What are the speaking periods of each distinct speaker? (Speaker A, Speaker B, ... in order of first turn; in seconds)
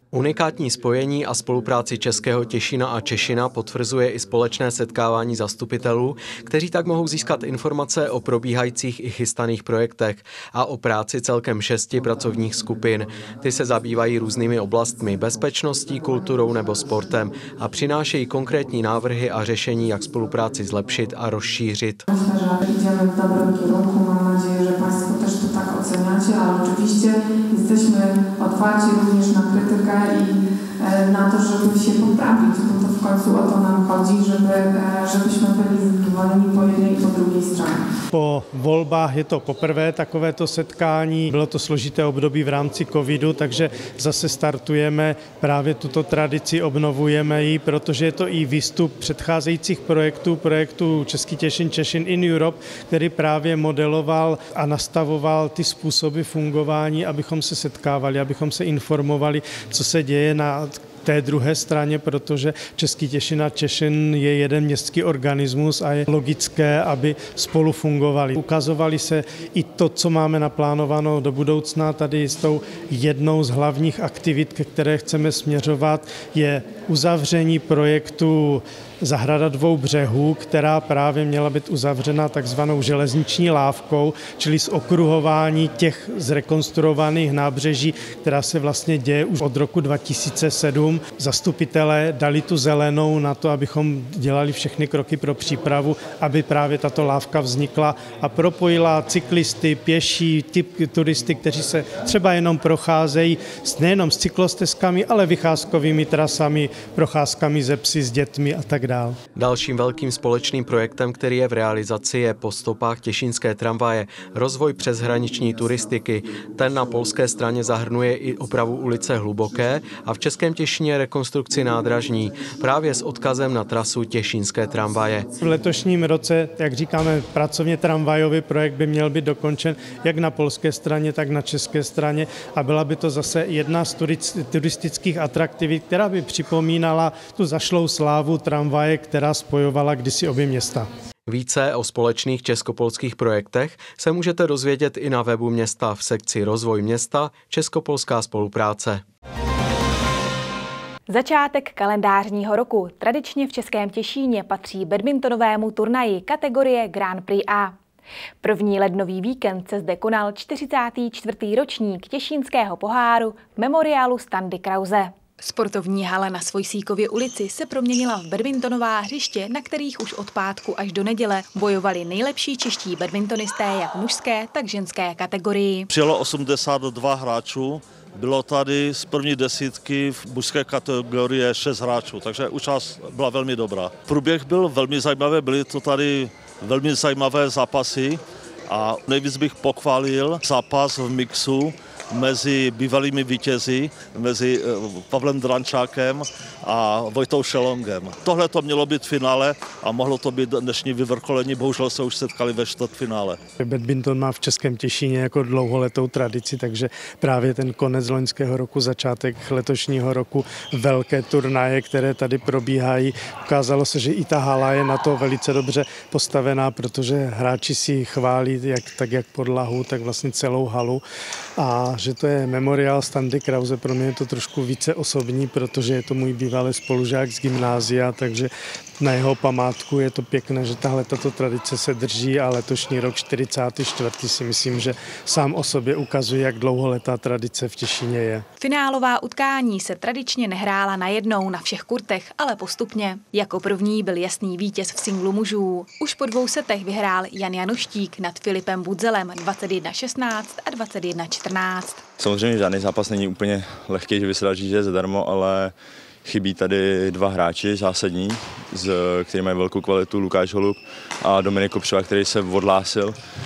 Speaker A: 0.1-22.1, 109.3-125.3, 141.3-149.0
Speaker B: 22.1-37.9
Speaker C: 38.1-109.2, 125.4-140.9, 203.6-221.0, 221.6-238.4
Speaker D: 151.1-157.7, 158.4-175.9, 238.6-252.0
Speaker E: 175.9-188.2, 188.7-203.4
Speaker F: 252.2-263.1